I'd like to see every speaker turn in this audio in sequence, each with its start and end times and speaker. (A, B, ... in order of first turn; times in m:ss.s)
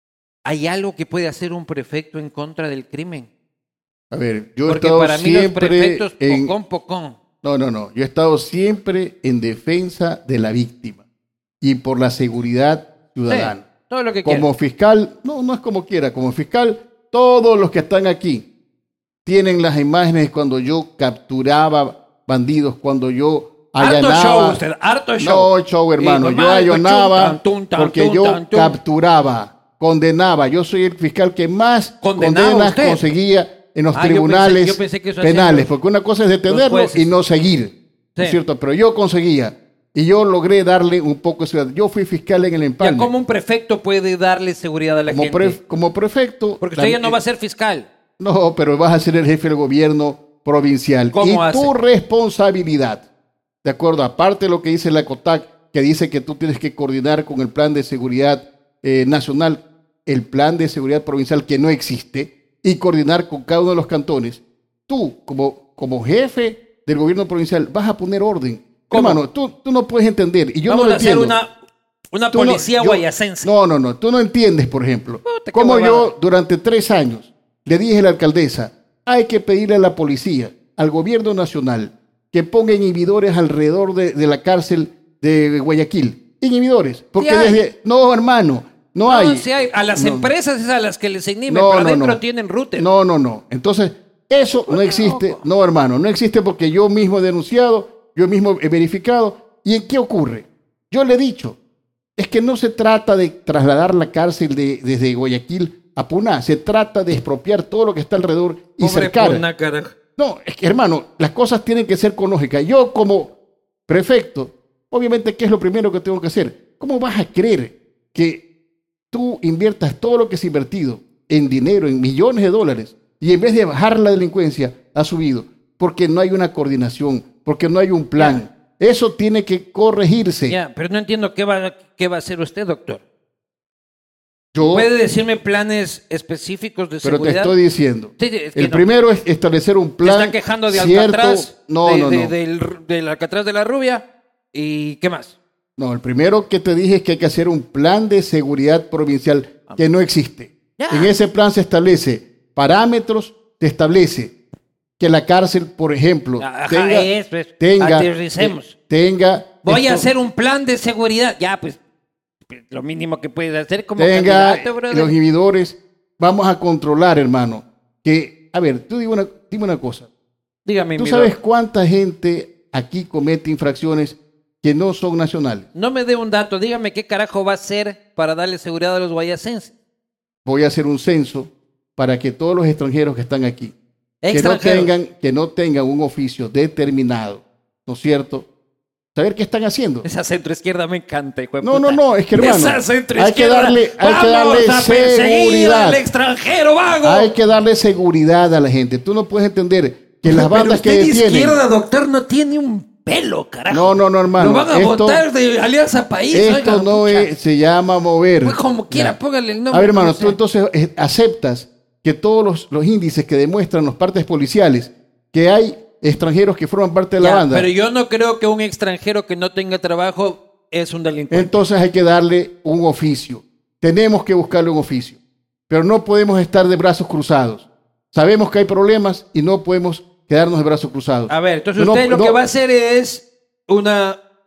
0:00.4-0:03.3 A
0:04.1-0:06.5 B
0:04.7-0:07.2 A
0:07.4-0:11.0 B
0:11.6-0:13.6 B
0:13.3-0:14.5 A
0:14.2-0:18.5 B
0:19.2-0:24.6 B
0:23.8-0:28.8 A
0:25.2-0:43.1 B
0:32.0-0:33.0 A
0:33.9-0:35.7 A
0:36.5-0:37.1 A
0:42.8-0:45.6 A
0:45.1-0:47.2 B
0:46.6-0:47.9 A
0:48.2-0:53.0 B
0:51.1-0:51.7 A
0:53.6-1:11.4 B
1:08.9-1:09.2 A
1:10.7-1:11.5 A
1:12.1-1:13.5 A
1:12.3-1:30.3 B
1:15.2-1:16.1 A
1:27.2-1:27.6 A
1:29.0-1:32.9 A
1:31.5-1:32.2 B
1:32.8-1:41.6 B
1:34.7-1:35.4 A
1:42.2-1:49.4 B
1:48.8-1:49.9 A
1:50.2-1:53.3 B
1:53.9-1:58.4 B
1:59.1-2:10.6 B
2:10.5-2:13.0 A
2:14.5-2:14.9 B
2:14.6-2:17.6 A
2:17.0-2:22.3 B
2:18.2-2:18.8 A
2:20.0-2:25.4 A
2:25.8-2:34.3 B
2:30.8-2:31.1 A
2:35.0-2:40.1 B
2:36.4-2:38.7 A
2:39.6-2:41.8 A
2:42.5-2:45.1 A
2:44.0-2:50.1 B
2:50.6-2:51.3 A
2:51.0-2:55.6 B
2:55.7-2:59.7 A
3:00.4-3:03.7 B
3:04.2-3:04.9 A
3:04.3-3:08.5 B
3:09.1-3:10.1 B
3:10.0-3:17.3 A
3:11.6-3:16.0 B
3:17.0-3:21.6 B
3:20.2-3:27.3 A
3:23.7-3:25.2 B
3:26.3-3:29.2 B
3:28.4-3:30.4 A
3:29.7-3:37.7 B
3:37.2-3:41.6 A
3:41.3-3:52.4 B
3:51.3-3:54.2 A